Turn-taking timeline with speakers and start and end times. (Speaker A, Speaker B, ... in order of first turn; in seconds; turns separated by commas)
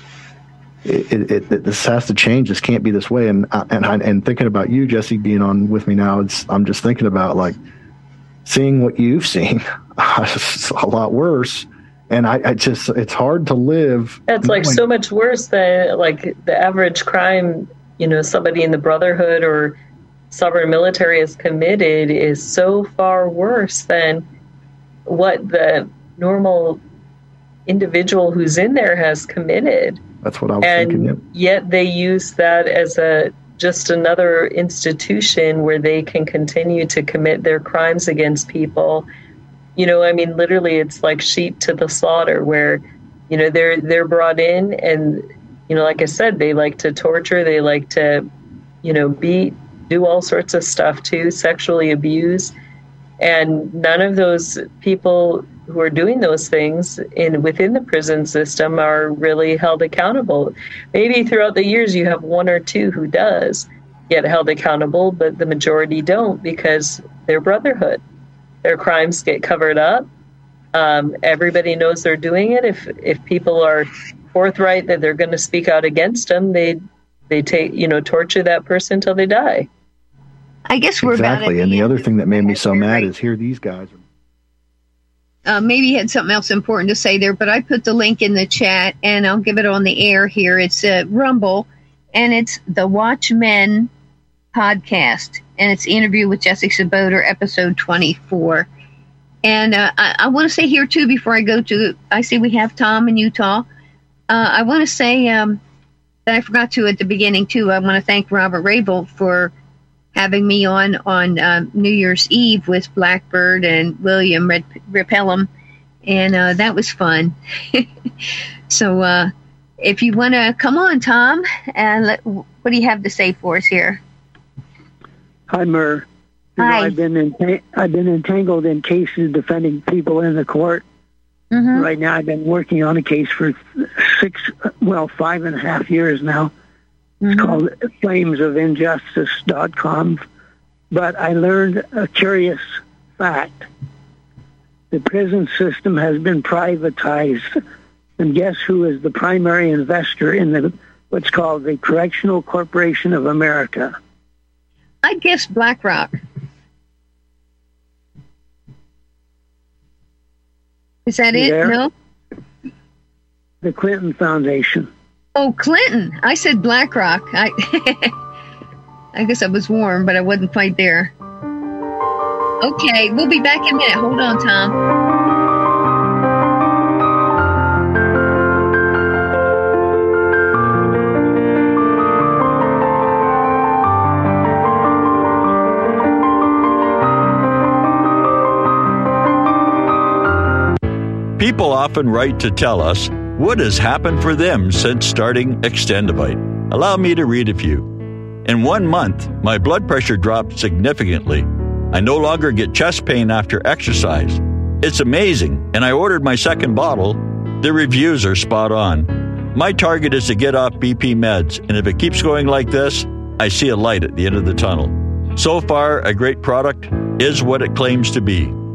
Speaker A: 0.8-7.6, Speaker A: 8.4-14.8, Speaker B: 14.3-19.8, Speaker B: 20.3-24.2, Speaker B: 25.1-26.8, Speaker B: 27.7-30.0, Speaker A: 30.2-31.2, Speaker B: 30.6-39.1, Speaker B: 39.8-48.3, Speaker B: 48.8-52.5, Speaker B: 53.2-68.0, Speaker B: 68.6-70.1, Speaker B: 70.7-79.7, Speaker C: 80.7-83.1, Speaker A: 81.0-84.0, Speaker C: 85.5-93.9, Speaker C: 94.5-98.7, Speaker C: 99.4-103.7, Speaker C: 104.3-105.6, Speaker C: 106.3-109.5, Speaker C: 110.2-115.5, Speaker C: 116.1-117.9, Speaker C: 118.7-124.0, Speaker D: 125.5-126.1, Speaker D: 126.6-130.8, Speaker C: 126.6-127.0, Speaker C: 131.5-131.9, Speaker D: 131.7-136.5, Speaker C: 137.2-137.6, Speaker D: 137.3-140.2, Speaker D: 140.9-142.6, Speaker D: 143.2-143.7, Speaker D: 144.9-147.5, Speaker D: 148.2-154.0, Speaker C: 155.0-156.2, Speaker C: 161.1-161.9, Speaker D: 161.3-161.8, Speaker D: 163.6-164.9, Speaker C: 165.3-168.1, Speaker C: 169.2-171.1, Speaker C: 172.6-174.8, Speaker E: 191.4-197.9, Speaker E: 198.4-218.6